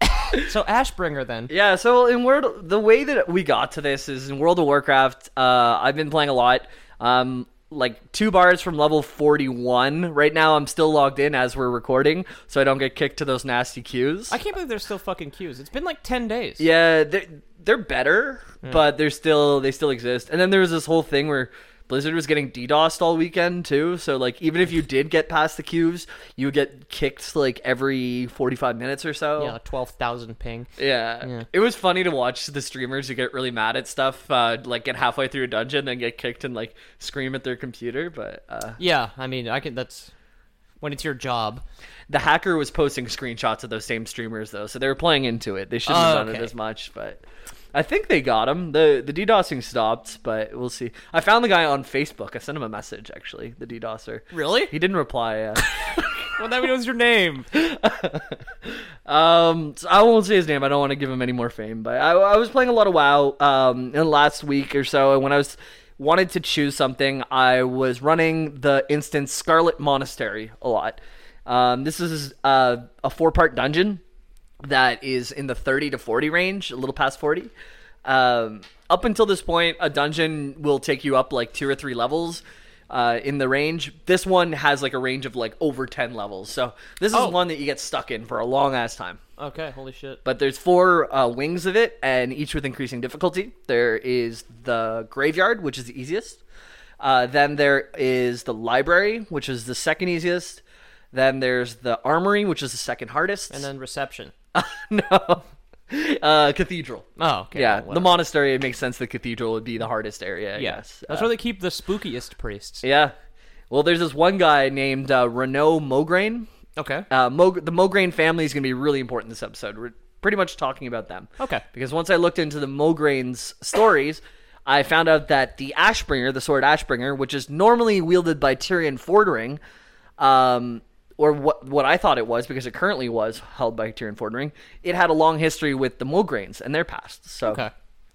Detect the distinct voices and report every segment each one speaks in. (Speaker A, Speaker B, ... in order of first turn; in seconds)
Speaker A: 0.3-1.5, 14.3-16.6, 29.4-30.7, 38.8-40.1, 40.8-41.6, 45.9-46.5, 54.3-54.7, 55.6-57.5, 87.1-87.4, 89.4-90.2, 103.5-104.3, 107.2-108.2, 110.6-112.8, 116.8-117.1, 137.5-137.7
Speaker B: 1.5-14.4, 16.6-29.6, 30.8-38.8, 42.1-47.2, 47.7-56.1, 57.5-74.0, 74.6-77.5, 78.0-89.2, 90.2-96.4, 97.0-100.6, 101.1-103.7, 104.5-111.3, 112.8-113.1, 113.7-116.5, 117.1-129.6, 130.2-137.6